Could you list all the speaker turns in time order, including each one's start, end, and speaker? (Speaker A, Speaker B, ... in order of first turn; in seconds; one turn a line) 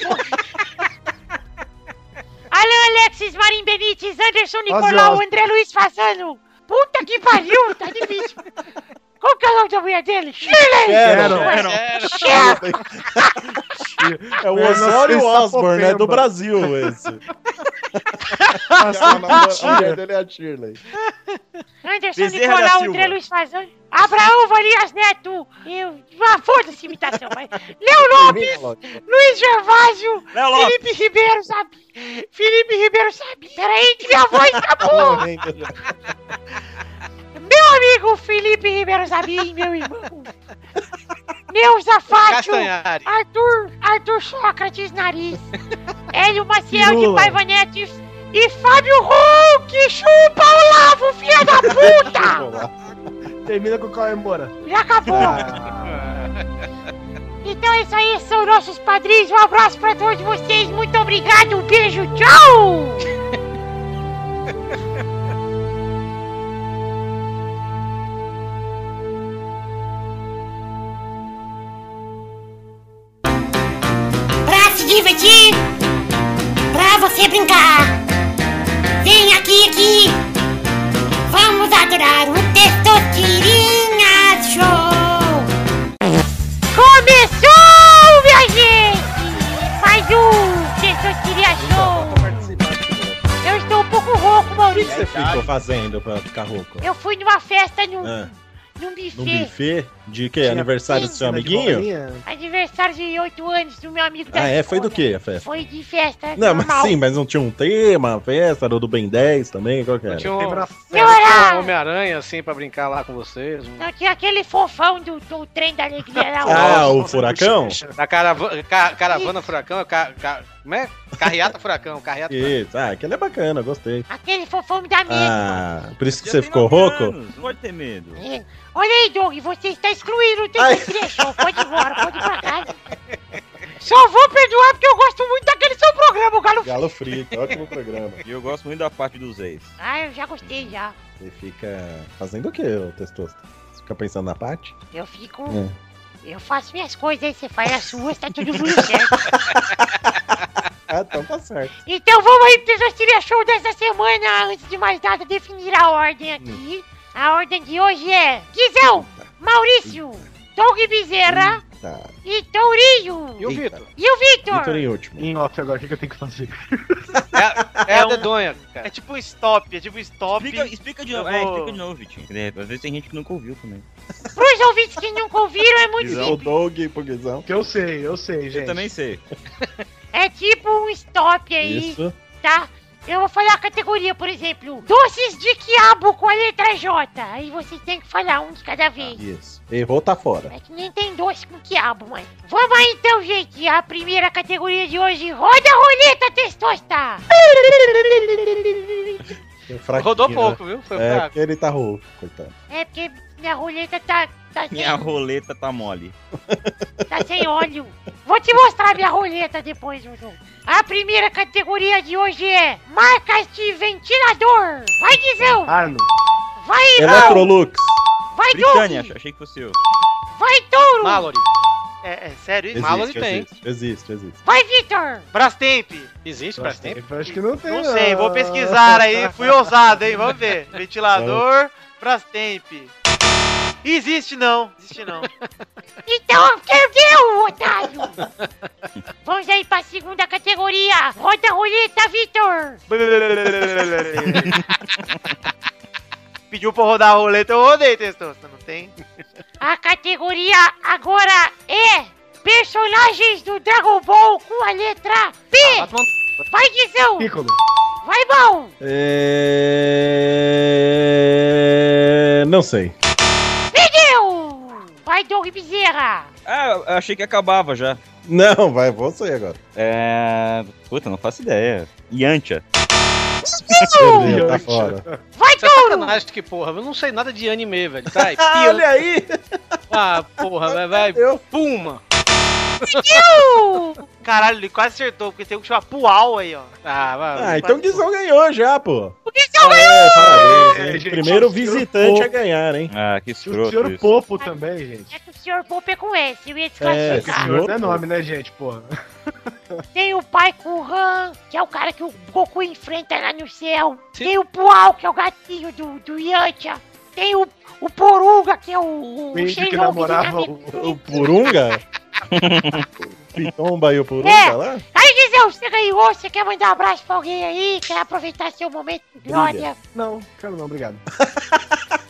Speaker A: 2.5-8.4
Speaker B: 4.7-5.2
Speaker A: 9.2-13.4
Speaker C: 10.8-11.6
Speaker B: 11.0-11.6
Speaker D: 11.6-12.2
Speaker C: 12.2-13.4
Speaker B: 14.0-16.3
Speaker C: 14.4-17.2
Speaker C: 18.4-20.8
Speaker B: 18.7-20.0
Speaker A: 21.9-35.3
Speaker E: 22.2-23.2
Speaker C: 28.1-28.9
Speaker E: 30.3-30.8
Speaker C: 34.8-35.7
Speaker A: 37.4-40.3
Speaker A: 41.5-45.4
Speaker D: 42.3-43.1
Speaker A: 46.1-52.5
Speaker B: 46.7-47.4
Speaker C: 51.4-52.9
Speaker B: 53.5-54.5
Speaker A: 54.6-55.5
Speaker B: 55.1-56.1
Speaker C: 55.1-55.4
Speaker A: 57.4-63.1
Speaker A: 74.4-75.7
Speaker A: 76.7-78.0
Speaker A: 79.0-80.2
Speaker A: 81.3-85.5
Speaker A: 86.7-92.5
Speaker C: 91.5-93.2
Speaker A: 93.4-95.1
Speaker C: 94.8-96.9
Speaker E: 94.9-95.5
Speaker A: 96.8-99.5
Speaker C: 98.0-98.3
Speaker C: 99.1-101.9
Speaker B: 100.4-102.2
Speaker A: 100.9-101.2
Speaker A: 102.3-107.0
Speaker C: 104.3-105.4
Speaker C: 106.3-110.3
Speaker D: 110.1-113.9
Speaker B: 110.3-111.3
Speaker A: 110.9-111.7
Speaker A: 113.8-117.1
Speaker C: 116.4-117.8
Speaker B: 116.4-117.9
Speaker D: 118.0-122.6
Speaker A: 119.1-119.5
Speaker C: 122.3-124.1
Speaker A: 124.1-125.3
Speaker C: 125.1-127.2
Speaker E: 126.2-128.2
Speaker A: 128.2-132.9
Speaker C: 130.6-132.2
Speaker A: 133.8-136.9
Speaker C: 136.6-138.2
Speaker D: 137.3-138.0
Speaker E: 138.2-139.7
Speaker A: 139.8-140.9
Speaker C: 141.2-144.7
Speaker A: 144.9-145.6
Speaker C: 145.5-145.7
Speaker A: 146.2-149.3
Speaker C: 148.5-149.9
Speaker C: 150.9-151.7
Speaker A: 151.8-161.6
Speaker C: 158.9-159.3
Speaker C: 161.3-162.1
Speaker A: 162.2-164.9
Speaker D: 163.4-163.9
Speaker C: 163.4-163.8
Speaker C: 164.5-165.3
Speaker B: 165.2-167.0
Speaker D: 167.3-168.9
Speaker F: 167.9-168.3
Speaker F: 168.8-171.8
Speaker E: 170.4-173.8
Speaker A: 174.3-176.5
Speaker E: 176.0-176.4
Speaker C: 176.0-177.5
Speaker B: 177.5-178.9
Speaker E: 178.5-179.2
Speaker A: 180.1-189.2
Speaker C: 181.6-182.2
Speaker C: 189.1-190.5
Speaker A: 190.5-197.2
Speaker C: 197.4-198.8
Speaker C: 199.7-202.5
Speaker D: 199.9-201.3
Speaker A: 202.7-205.1
Speaker E: 204.7-206.1
Speaker C: 206.5-207.5
Speaker A: 207.1-215.7
Speaker B: 215.7-216.1
Speaker A: 216.6-217.5
Speaker C: 217.0-218.0
Speaker A: 218.3-219.1
Speaker E: 218.5-219.8
Speaker A: 220.3-221.3
Speaker D: 221.0-221.5
Speaker F: 222.0-223.0
Speaker C: 222.7-224.4
Speaker D: 222.7-223.5
Speaker A: 224.4-225.3
Speaker F: 225.3-226.1
Speaker D: 226.2-227.0
Speaker B: 226.6-229.3
Speaker F: 227.3-232.9
Speaker C: 231.1-231.4
Speaker F: 233.8-235.3
Speaker A: 236.1-238.2
Speaker D: 238.2-238.4
Speaker A: 239.2-242.8
Speaker F: 242.9-244.6
Speaker F: 246.5-248.9
Speaker A: 249.6-255.9
Speaker D: 255.6-256.4
Speaker A: 256.5-257.3
Speaker B: 257.2-257.6
Speaker A: 258.0-258.7
Speaker C: 258.8-262.9
Speaker A: 263.7-266.3
Speaker E: 266.4-268.0
Speaker C: 268.2-269.6
Speaker E: 269.8-272.6
Speaker C: 273.6-275.1
Speaker A: 273.7-274.6
Speaker B: 274.2-275.2
Speaker A: 275.4-276.2
Speaker D: 275.6-278.9
Speaker C: 278.2-279.6
Speaker D: 279.9-282.0
Speaker C: 280.6-281.4
Speaker D: 282.8-283.2
Speaker A: 282.9-284.0
Speaker F: 284.2-286.7
Speaker D: 286.9-288.1
Speaker C: 287.4-292.9
Speaker A: 289.3-290.5
Speaker B: 290.1-292.3
Speaker E: 292.9-294.1
Speaker B: 293.4-295.1
Speaker A: 295.1-297.5
Speaker C: 296.8-298.0
Speaker B: 297.1-298.9
Speaker A: 299.9-311.5
Speaker B: 309.3-311.3
Speaker C: 310.7-311.8
Speaker E: 312.3-312.9
Speaker C: 313.3-314.9
Speaker A: 314.2-319.8
Speaker C: 319.3-319.7
Speaker B: 319.9-321.0
Speaker C: 321.2-321.8